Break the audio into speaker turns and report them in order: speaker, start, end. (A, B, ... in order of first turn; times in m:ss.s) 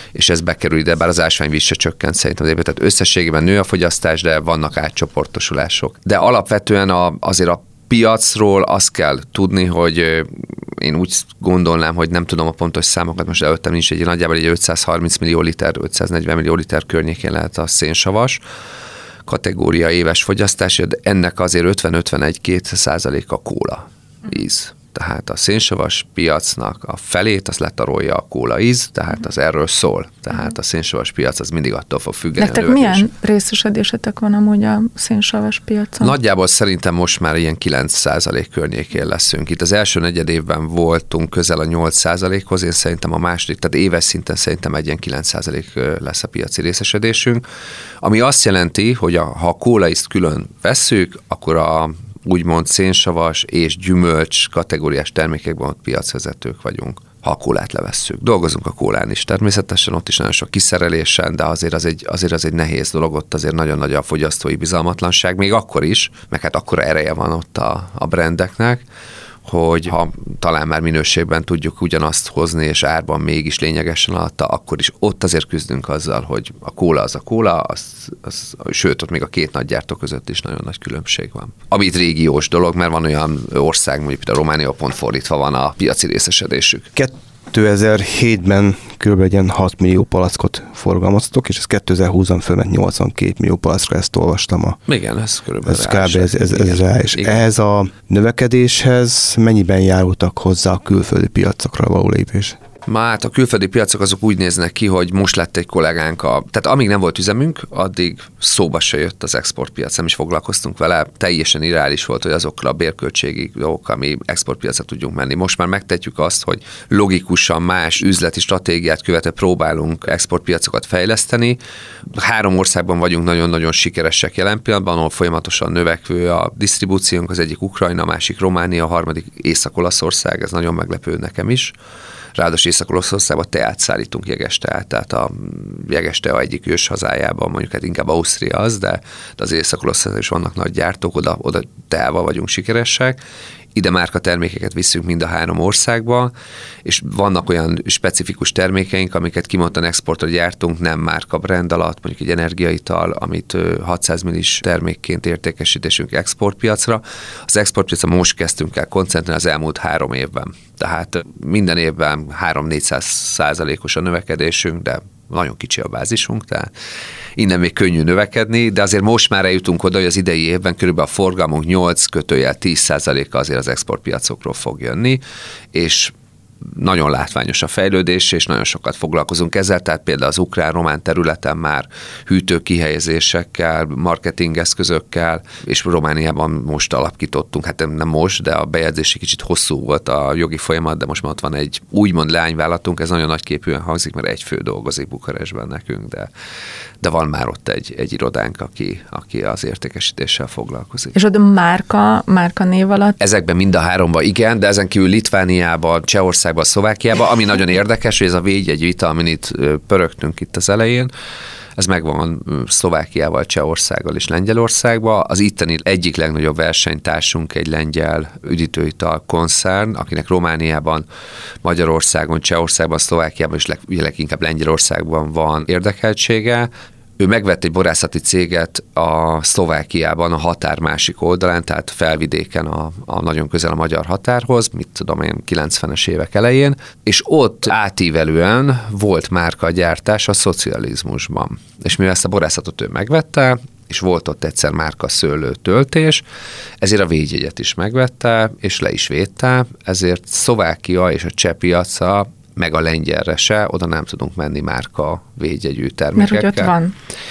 0:00.2-0:18.4 A
0:19.3-0:33.1 A
0:32.4-0:36.1 B
0:36.0-0:47.4 A
0:48.0-1:08.8 A
1:09.5-1:26.9 A
1:27.0-1:34.8 C
1:34.9-1:37.4 A
1:35.6-1:42.6 C
1:42.9-2:01.6 A
2:02.1-2:11.7 A
2:12.4-2:23.2 A
2:23.8-2:26.3 A
2:26.8-2:46.7 A
2:47.4-2:55.2 A
2:55.7-2:56.1 A
2:56.7-3:16.3 A
3:17.0-3:21.2 A
3:21.2-3:23.2 B
3:23.2-3:31.1 A
3:31.8-3:41.0 A
3:41.6-4:06.2 A
4:06.8-4:16.7 A
4:16.2-4:16.9 B